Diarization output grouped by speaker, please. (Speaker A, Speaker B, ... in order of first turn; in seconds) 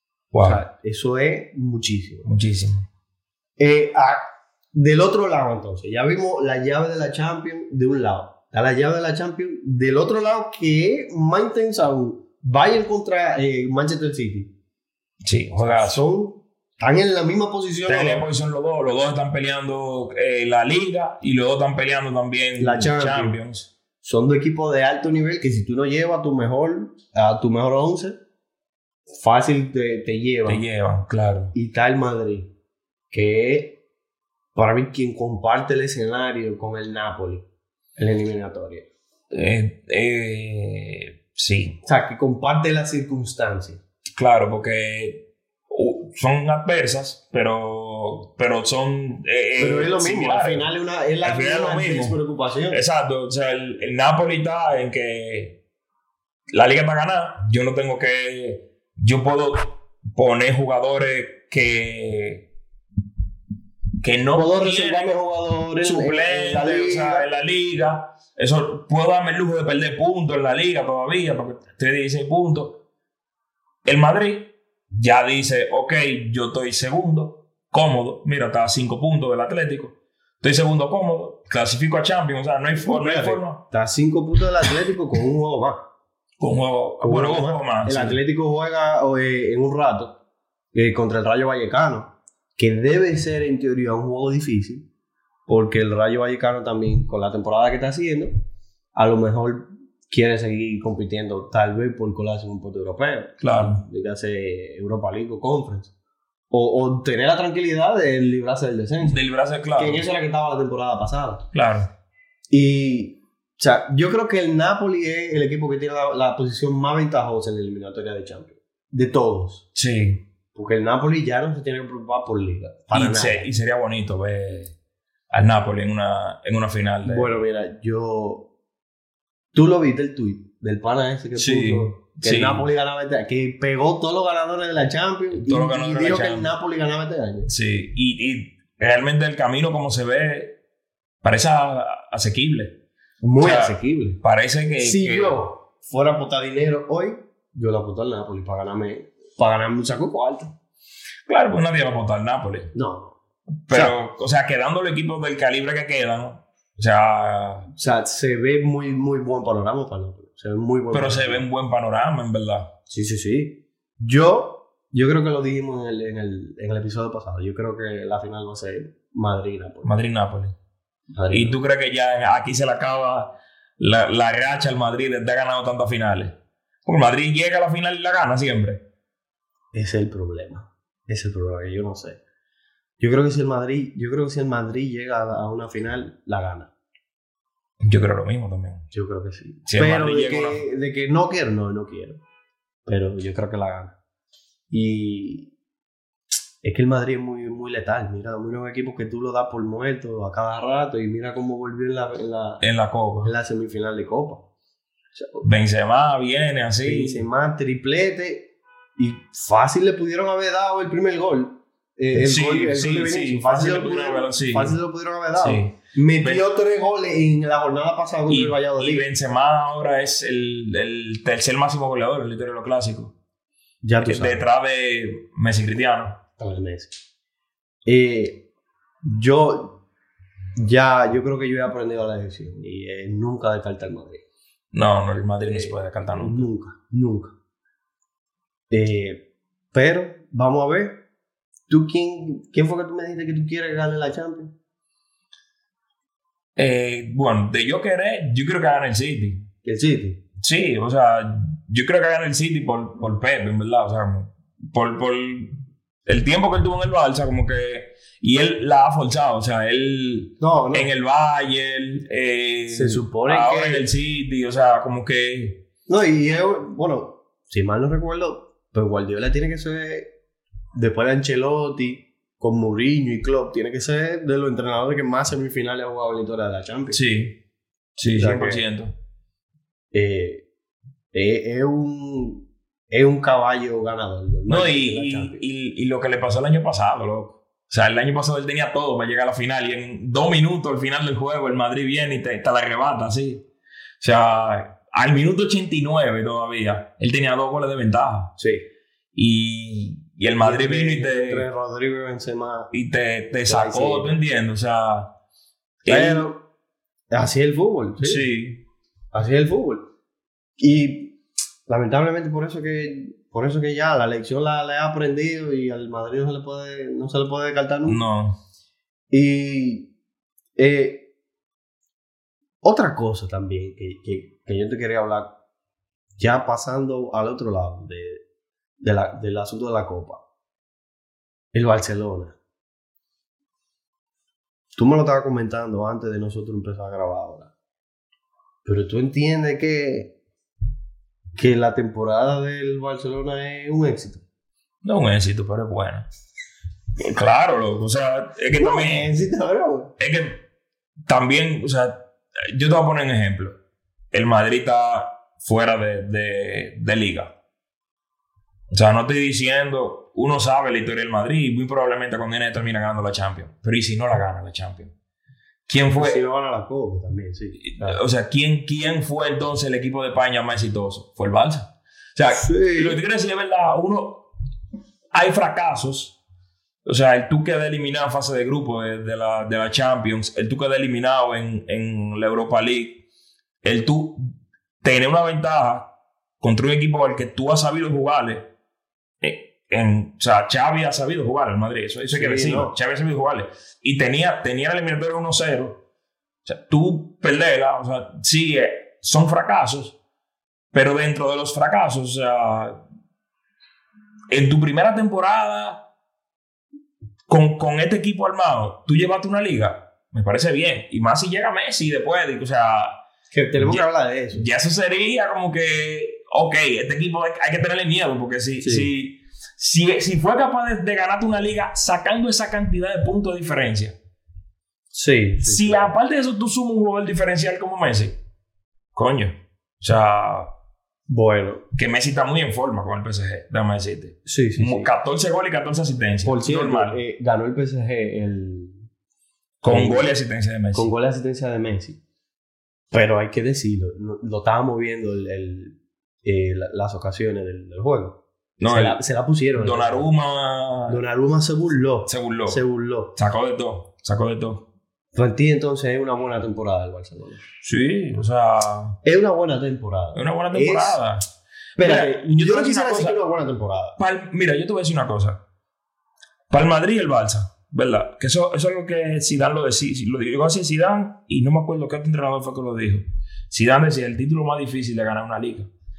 Speaker A: 0.3-0.6, 2.2-2.8, 15.2-16.0, 17.9-23.7, 30.5-31.5, 39.3-41.8, 44.2-50.7, 51.2-52.2, 52.7-55.6, 56.5-62.5, 64.0-65.1, 65.8-72.8, 73.8-83.6, 86.4-88.2, 103.4-103.8, 109.0-110.0, 111.5-111.9, 119.8-120.2, 122.9-124.7, 125.3-127.3, 131.4-132.7, 135.3-136.5, 137.5-140.6, 141.2-142.8, 143.4-145.4, 151.3-152.7, 153.7-157.7, 160.9-162.7, 169.8-170.6, 171.3-178.8, 187.8-188.9, 189.7-190.6, 202.6-203.3, 205.4-207.2, 212.1-214.8, 215.4-216.4, 218.3-223.1, 224.0-226.2, 234.7-236.5, 246.6-249.5, 250.4-255.6, 256.1-265.6, 276.9-277.4, 278.0-278.9, 284.5-293.4, 294.0-298.3, 299.1-301.5, 302.7-305.1, 305.9-306.3, 308.0-308.6, 317.9-318.4, 344.8-346.1, 347.0-349.1, 350.0-350.4, 351.1-353.6, 354.1-357.3, 358.7-364.9, 365.7-366.2, 367.6-374.3, 375.1-376.2, 376.9-383.0, 383.6-384.2, 384.8-385.9, 386.4-388.5, 389.2-395.8, 396.4-400.0, 400.7-402.8, 404.3-405.8, 407.3-413.0, 413.6-423.9, 425.4-428.2, 428.9-430.5, 431.7-437.0, 439.6-440.9, 448.6-449.0, 449.6-451.0, 452.1-452.6, 453.1-454.6, 457.6-459.0, 460.1-461.2, 461.8-463.2, 464.0-465.4, 466.5-475.7
Speaker B: 0.4-2.3, 3.6-14.5, 15.6-18.2, 22.6-23.4, 24.0-28.2, 29.1-30.6, 31.5-32.5, 33.1-33.8, 34.5-37.5, 38.0-38.9, 41.8-43.8, 49.6-52.8, 64.3-67.3, 82.8-85.8, 87.0-90.2, 90.7-94.8, 95.5-98.3, 99.0-105.9, 106.5-109.2, 109.8-111.5, 112.5-119.6, 120.5-123.5, 127.0-128.5, 129.5-137.5, 143.2-144.2, 144.8-150.5, 152.7-153.2, 153.7-154.0, 157.8-161.4, 162.9-169.9, 171.1-171.6, 179.7-182.2, 183.0-186.7, 188.9-192.2, 192.9-193.9, 194.7-195.5, 196.6-202.6, 203.2-204.4, 205.1-205.5, 206.8-219.1, 223.8-224.5, 226.4-227.0, 227.9-228.4, 229.0-229.8, 230.6-234.2, 235.4-237.3, 238.7-241.0, 241.7-244.5, 249.6-250.2, 260.4-260.9, 262.7-263.9, 265.9-270.1, 270.8-277.0, 278.2-278.6, 279.9-280.4, 281.1-285.4, 298.4-298.6, 300.4-302.7, 303.4-304.1, 305.9-306.4, 307.1-308.2, 309.1-309.9, 310.6-311.1, 311.7-318.0, 319.1-319.9, 320.6-321.0, 322.6-325.3, 326.2-328.2, 328.8-330.2, 331.5-332.4, 334.8-337.5, 338.6-340.1, 341.4-344.2, 348.5-349.9, 365.9-368.0, 372.4-373.0, 392.1-392.8, 413.3-414.5, 418.6-418.9, 424.9-425.9, 431.1-431.6, 434.2-434.9, 436.2-438.8, 439.6-440.1, 440.7-442.0, 442.9-450.1, 450.9-453.1, 455.1-457.4, 459.0-461.0, 461.8-464.0